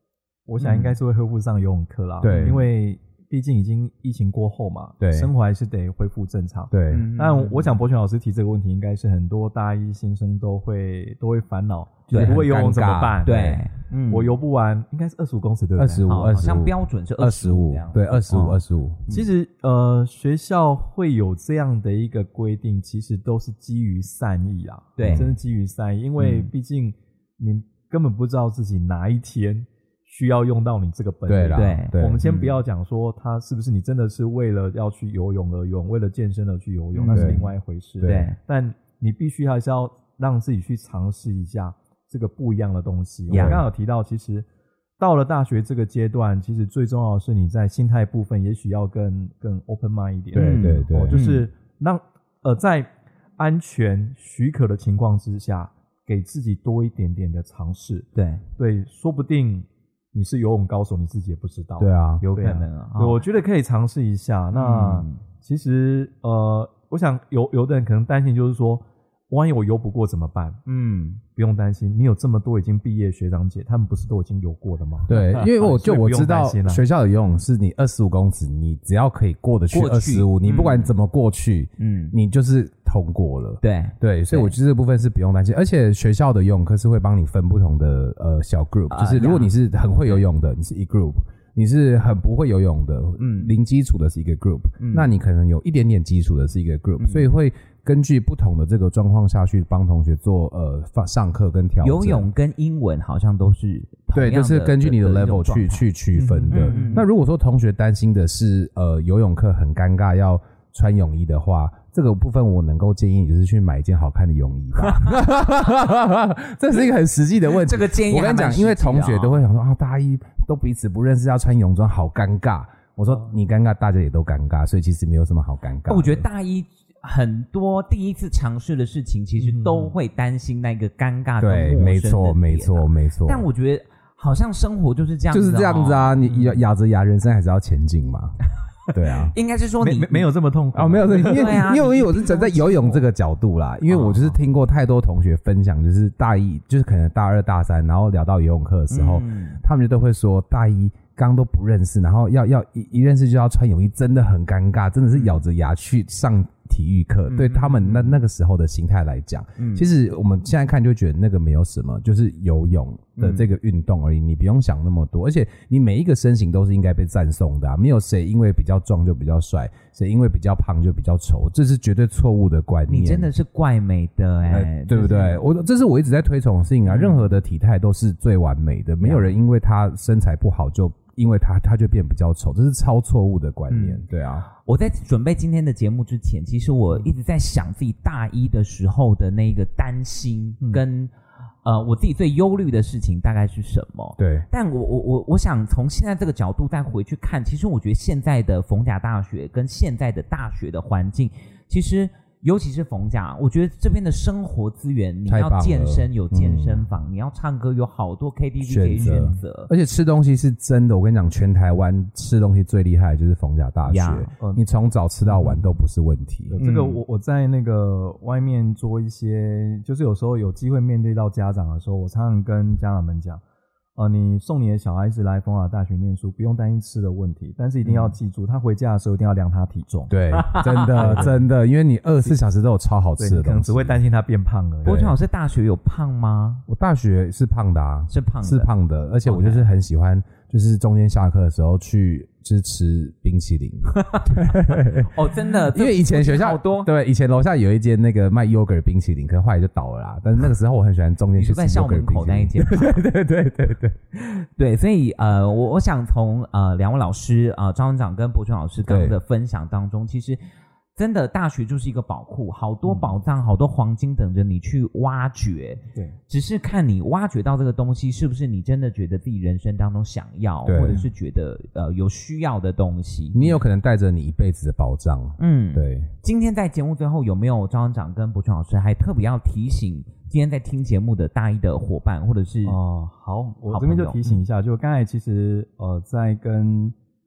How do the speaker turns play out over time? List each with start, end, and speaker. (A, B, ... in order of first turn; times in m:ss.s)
0:00.5-0:13.6 A
0:00.6-0:00.9 B
0:02.2-0:02.7 C
0:02.3-0:02.6 B
0:05.0-0:05.3 C
0:06.7-0:07.0 C
0:06.9-0:07.7 B
0:12.1-0:12.4 B
0:12.1-0:13.6 C
0:13.2-0:14.3 B
0:14.1-0:16.1 A
0:15.8-0:19.0 C
0:16.0-0:19.3 B
0:19.1-0:44.5 A
0:25.0-0:25.3 B
0:25.0-0:25.3 C
0:26.2-0:26.5 B
0:31.3-0:32.2 C
0:31.5-0:32.6 B
0:36.9-0:37.5 B
0:37.1-0:37.4 C
0:38.0-0:38.4 B
0:43.3-0:43.6 B
0:43.3-0:43.6 C
0:45.0-1:10.6 A
0:50.3-0:51.2 C
0:50.4-0:51.5 B
0:58.2-0:58.4 B
1:01.8-1:02.2 C
1:02.2-1:03.2 B
1:04.5-1:05.2 B
1:10.7-1:11.2 B
1:11.4-1:16.8 A
1:15.1-1:42.3 C
1:15.1-1:15.4 B
1:19.7-1:20.9 B
1:21.8-1:22.2 B
1:23.6-1:24.5 B
1:28.9-1:29.5 B
1:33.2-1:33.5 B
1:34.8-1:35.1 B
1:37.0-1:37.3 B
1:41.8-1:47.1 B
1:44.1-2:06.3 C
1:46.5-1:46.9 A
1:54.8-1:55.2 B
1:57.5-1:59.4 B
2:05.9-2:16.2 B
2:09.4-2:10.0 A
2:11.4-2:13.5 C
2:15.3-2:19.4 C
2:16.2-2:16.6 A
2:19.3-2:20.3 B
2:19.8-2:21.9 A
2:20.8-2:53.3 C
2:21.1-2:23.0 B
2:23.9-2:24.4 B
2:28.9-2:29.6 B
2:35.1-2:35.4 B
2:37.3-2:38.2 B
2:39.6-2:39.9 B
2:43.2-2:43.5 B
2:52.9-2:55.4 B
2:54.5-3:04.5 C
2:56.9-2:57.4 B
2:59.0-2:59.3 B
3:03.7-3:11.1 B
3:11.6-3:29.7 B
3:14.2-3:14.5 C
3:25.3-3:26.9 C
3:28.6-3:36.6 C
3:29.0-3:29.4 A
3:33.9-3:34.4 B
3:35.3-3:35.6 A
3:36.5-3:43.4 A
3:36.6-3:37.0 B
3:44.0-3:50.2 A
3:47.8-3:48.1 B
3:50.1-3:54.0 C
3:50.3-3:51.3 B
3:51.0-3:51.5 A
3:53.2-3:55.0 A
3:54.8-3:56.6 B
3:54.9-3:55.1 C
3:56.7-4:05.1 C
3:58.1-3:58.7 B
3:59.2-3:59.6 B
4:04.0-4:06.9 B
4:05.7-4:14.0 C
4:11.4-4:13.0 B
4:14.2-4:20.4 B
4:18.9-4:19.2 C
4:21.0-4:33.5 B
4:22.9-4:23.2 A
4:30.7-4:31.0 C
4:33.3-4:36.1 C
4:35.4-4:42.8 B
4:42.6-4:47.0 A
4:43.7-4:44.4 B